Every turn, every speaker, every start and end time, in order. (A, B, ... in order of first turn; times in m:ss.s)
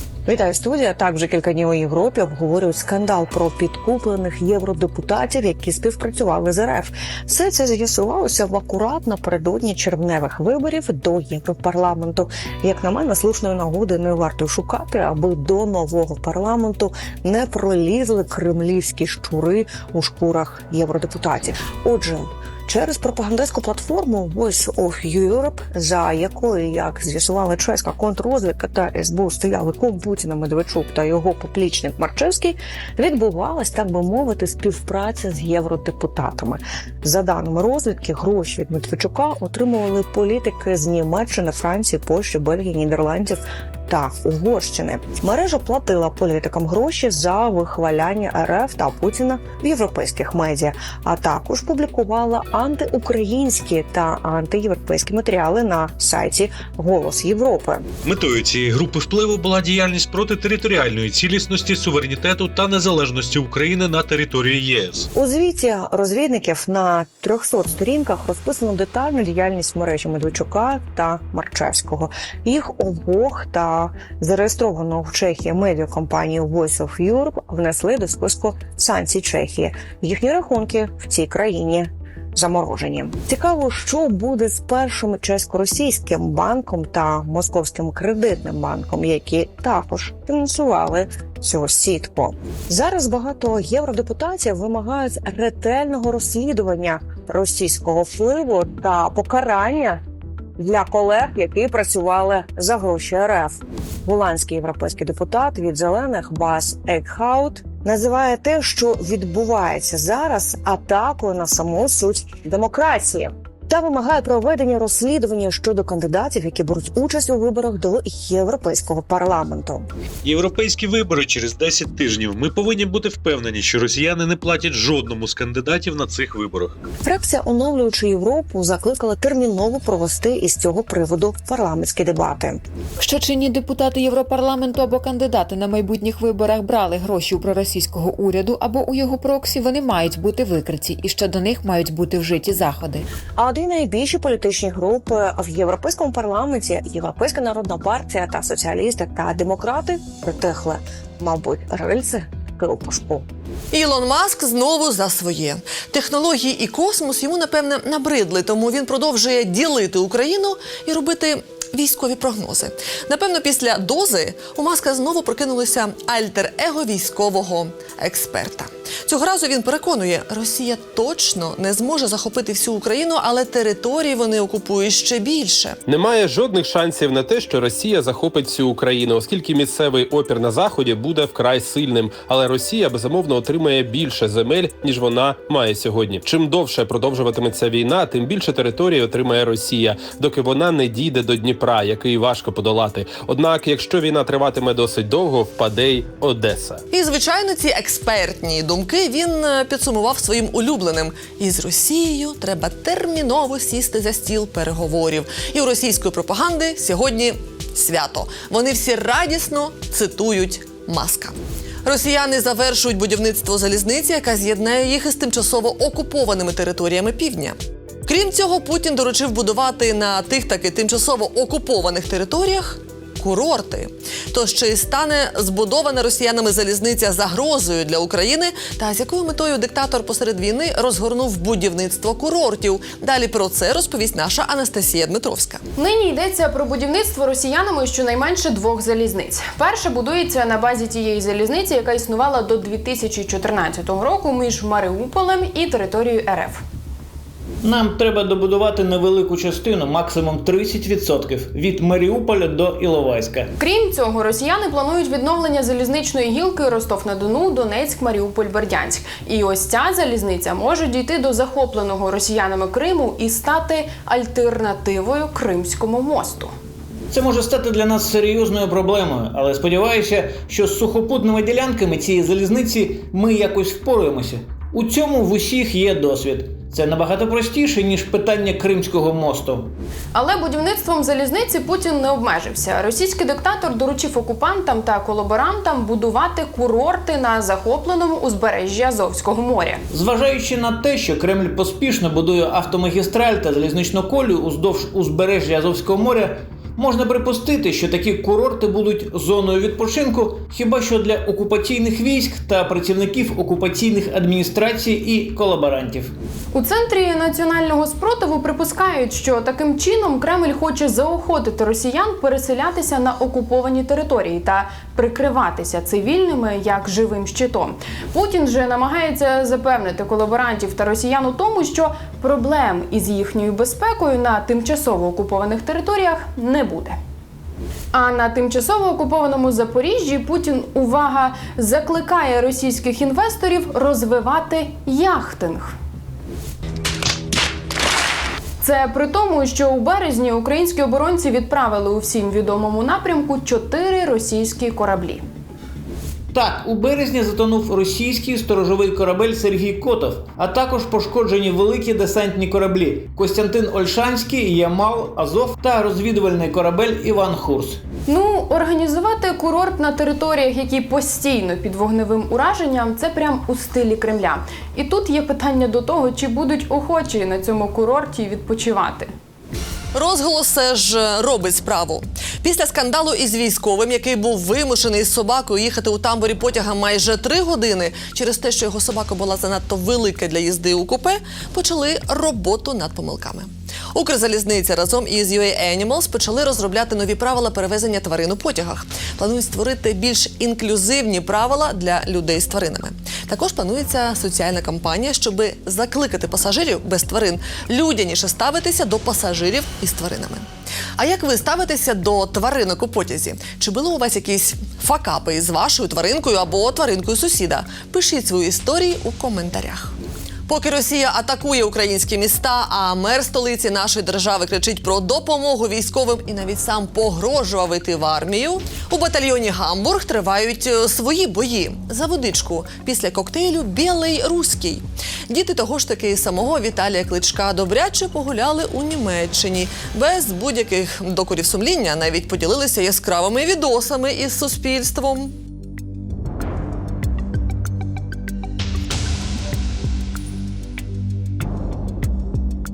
0:00.3-0:57.8 A
0:58.0-1:05.1 B
1:05.2-1:40.0 A
1:40.6-1:59.9 A
2:00.2-2:06.8 B
2:07.0-2:12.6 A
2:13.0-2:23.0 C
2:23.4-2:33.3 A
2:33.7-2:55.8 D
2:55.9-3:16.8 E
3:16.9-3:37.6 D
3:38.1-3:55.6 D
3:55.8-4:06.6 F
4:07.6-4:13.5 G
4:13.6-4:26.5 F
4:27.1-4:39.7 G
4:40.1-4:49.8 F
4:49.9-5:06.1 G
5:06.5-5:27.0 F
5:27.9-5:35.8 F
5:38.6-5:45.2 F
5:46.3-5:57.8 G
5:58.1-6:09.1 F
6:09.9-6:40.5 D
6:41.0-6:49.9 D
6:50.5-7:15.3 D